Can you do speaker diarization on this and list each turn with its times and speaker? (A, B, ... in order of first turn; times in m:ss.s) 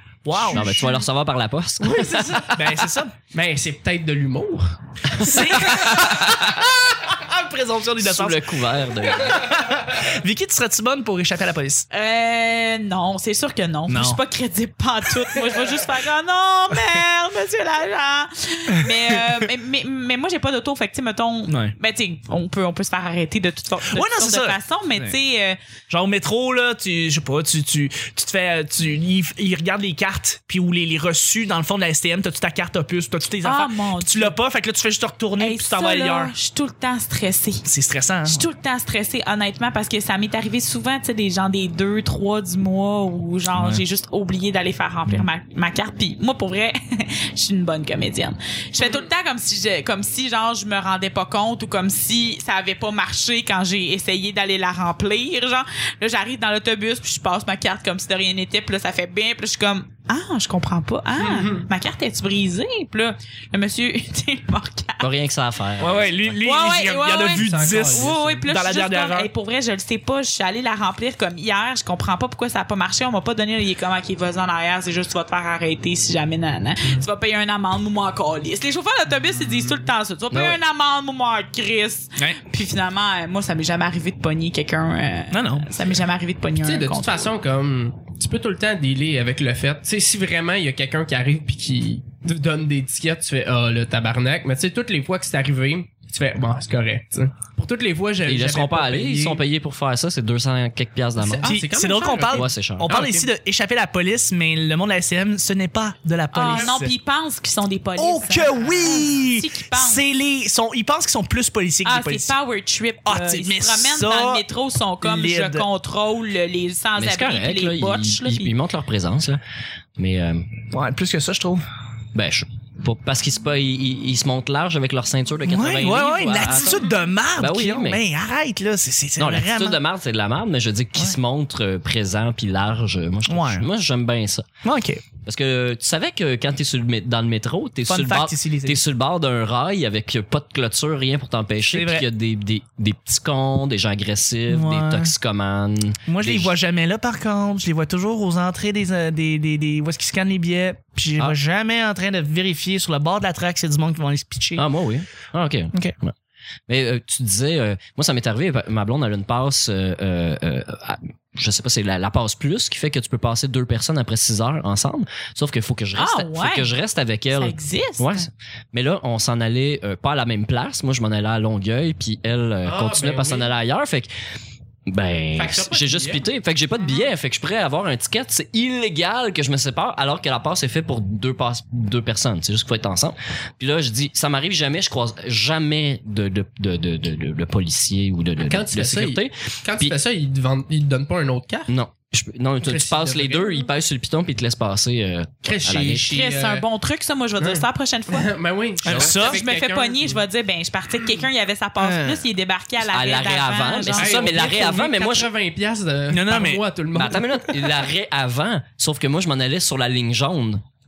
0:00.2-0:00.8 A
0:00.4-0:01.0 B
0:00.5-0:02.4 C
0:01.8-0:06.5 B
0:02.5-0:03.2 A
0:05.2-0:08.5 A
0:08.0-0:09.5 C
0:09.1-0:11.9 A
0:11.9-0:25.6 D
0:13.9-0:14.2 A
0:21.5-0:21.8 A
0:23.9-0:25.2 A
0:25.9-0:36.3 A
0:33.4-0:34.4 D
0:35.4-0:37.7 D
0:37.6-0:38.5 A
0:38.3-1:05.1 D
0:43.5-0:43.8 A
0:48.8-0:49.1 B
1:01.2-1:01.7 B
1:05.0-1:06.4 C
1:05.8-1:09.3 A
1:06.4-1:27.3 D
1:07.4-1:08.5 B
1:20.3-1:20.6 C
1:25.3-1:25.7 A
1:26.6-1:39.4 B
1:38.2-1:41.6 C
1:41.2-1:43.3 B
1:41.4-1:46.9 A
1:42.3-1:42.9 C
1:46.3-1:50.0 D
1:48.0-1:52.4 A
1:51.8-1:58.5 D
1:53.0-1:54.4 A
1:55.0-1:55.7 A
1:57.0-1:59.4 C
2:00.0-2:00.5 C
2:00.7-2:01.6 A
2:02.1-2:08.0 C
2:05.5-2:09.8 A
2:09.2-2:14.5 C
2:13.3-2:13.7 A
2:14.6-2:15.0 A
2:15.2-2:26.5 C
2:17.9-2:18.8 A
2:21.7-2:22.1 A
2:24.5-2:25.1 A
2:26.1-2:34.6 A
2:34.6-2:36.2 C
2:36.7-2:54.1 C
2:46.0-2:46.7 D
2:47.3-2:48.3 D
2:52.6-2:53.5 B
2:54.9-3:10.0 C
2:55.4-2:56.2 B
3:08.5-3:11.7 B
3:11.7-3:16.1 C
3:12.6-3:13.7 B
3:15.4-3:16.6 B
3:16.1-3:18.3 D
3:17.4-3:20.2 B
3:18.8-3:19.4 A
3:18.9-3:19.1 C
3:19.2-3:24.4 D
3:21.8-3:22.2 A
3:22.8-3:25.3 C
3:24.0-3:27.6 B
3:26.1-3:26.6 A
3:26.9-3:30.6 C